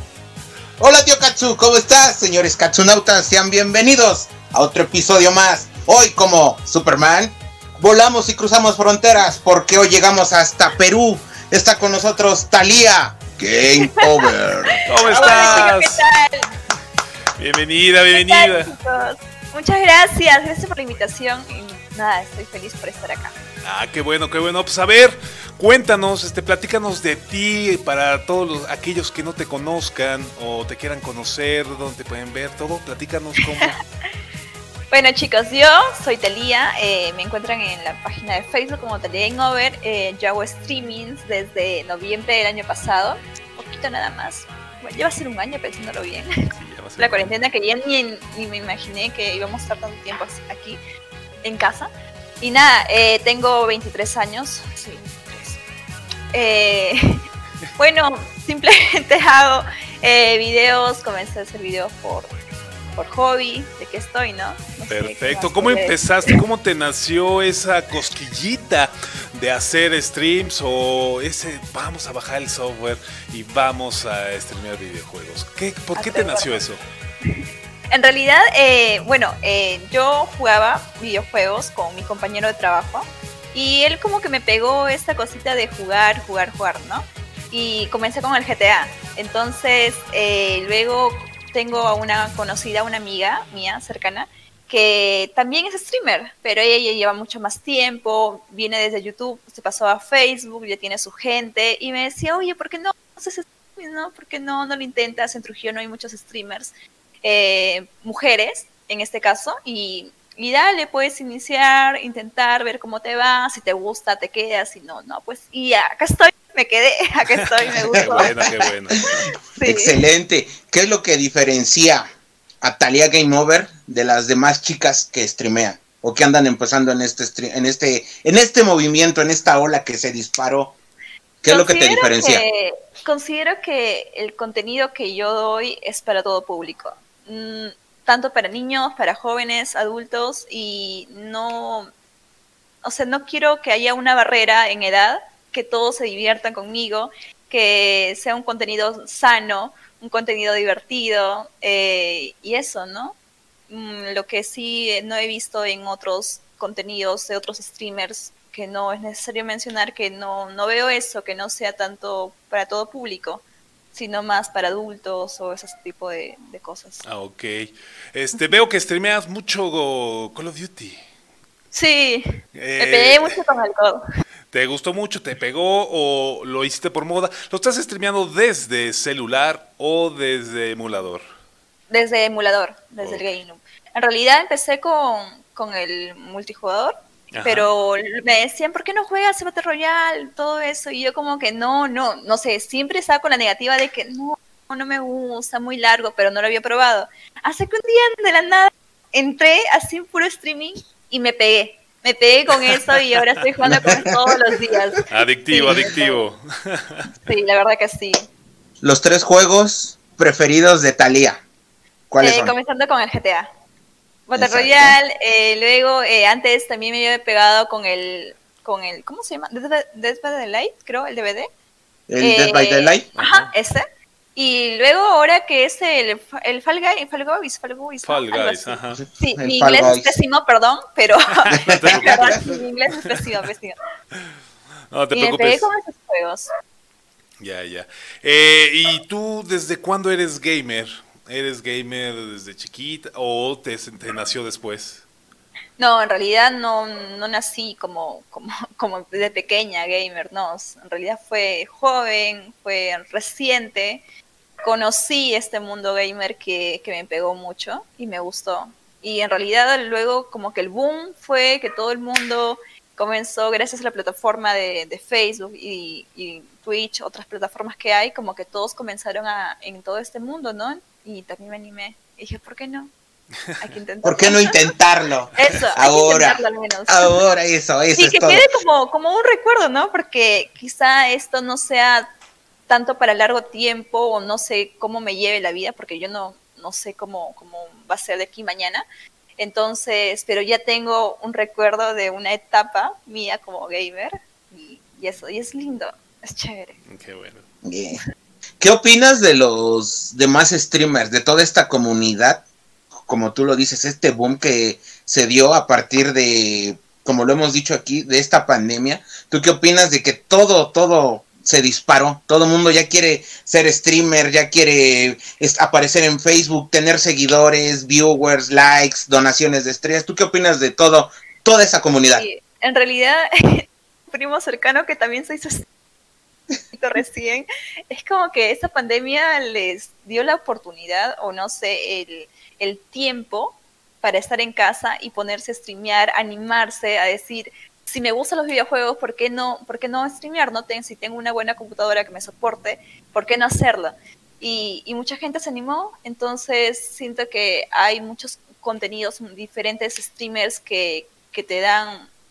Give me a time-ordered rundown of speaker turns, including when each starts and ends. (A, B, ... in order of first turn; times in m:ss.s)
0:00.8-0:15.7 A
0:13.8-0:14.3 B
0:14.8-0:16.0 C
0:15.1-0:16.5 B
0:17.4-0:18.7 C
0:18.1-0:23.3 B
0:23.6-0:33.8 C
0:34.9-0:46.3 B
0:46.5-0:47.3 C
0:47.0-0:50.8 B
0:51.4-0:51.9 B
0:52.4-0:55.6 B
0:56.3-0:57.2 B
0:57.8-1:02.3 B
1:02.9-1:06.4 B
1:04.9-1:16.8 C
1:15.9-1:16.6 B
1:17.2-1:46.7 B
1:47.2-1:58.4 B
1:57.4-1:59.3 C
1:58.0-1:58.5 A
1:59.0-2:00.0 B
1:59.6-2:02.0 A
2:02.6-2:10.7 A
2:11.4-2:12.4 A
2:11.5-2:21.9 B
2:22.8-2:33.2 B
2:33.7-2:43.4 B
2:43.9-2:47.0 B
2:47.0-2:51.0 C
2:51.7-2:54.0 B
2:52.5-2:53.4 C
2:54.5-3:01.2 C
3:01.9-3:26.2 B
3:03.0-3:03.2 C
3:07.3-3:07.7 C
3:25.1-3:27.1 C
3:27.2-3:28.2 B
3:28.8-3:31.4 A
3:32.1-3:32.5 A
3:32.2-3:33.5 B
3:34.3-3:41.5 B
3:34.4-3:35.0 A
3:42.1-3:43.1 A
3:42.2-3:43.8 B
3:43.1-3:43.5 C
3:44.3-3:53.7 B
3:48.0-3:49.0 C
3:49.0-3:50.2 A
3:51.4-3:52.5 C
3:51.5-3:52.4 A
3:54.9-3:55.7 C
3:55.1-3:56.5 B
3:57.4-4:05.0 C
4:05.8-4:14.0 B
4:14.6-4:32.9 B
4:33.6-4:34.6 B
4:34.0-4:38.4 A
4:35.4-4:37.1 B
4:37.9-4:42.1 B
4:42.7-4:48.8 B
4:49.4-4:56.8 B
4:56.8-4:57.4 C
4:57.6-4:58.0 A
4:58.6-5:02.4 A
5:03.0-5:22.3 A
5:22.1-5:25.7 B
5:26.7-5:52.1 B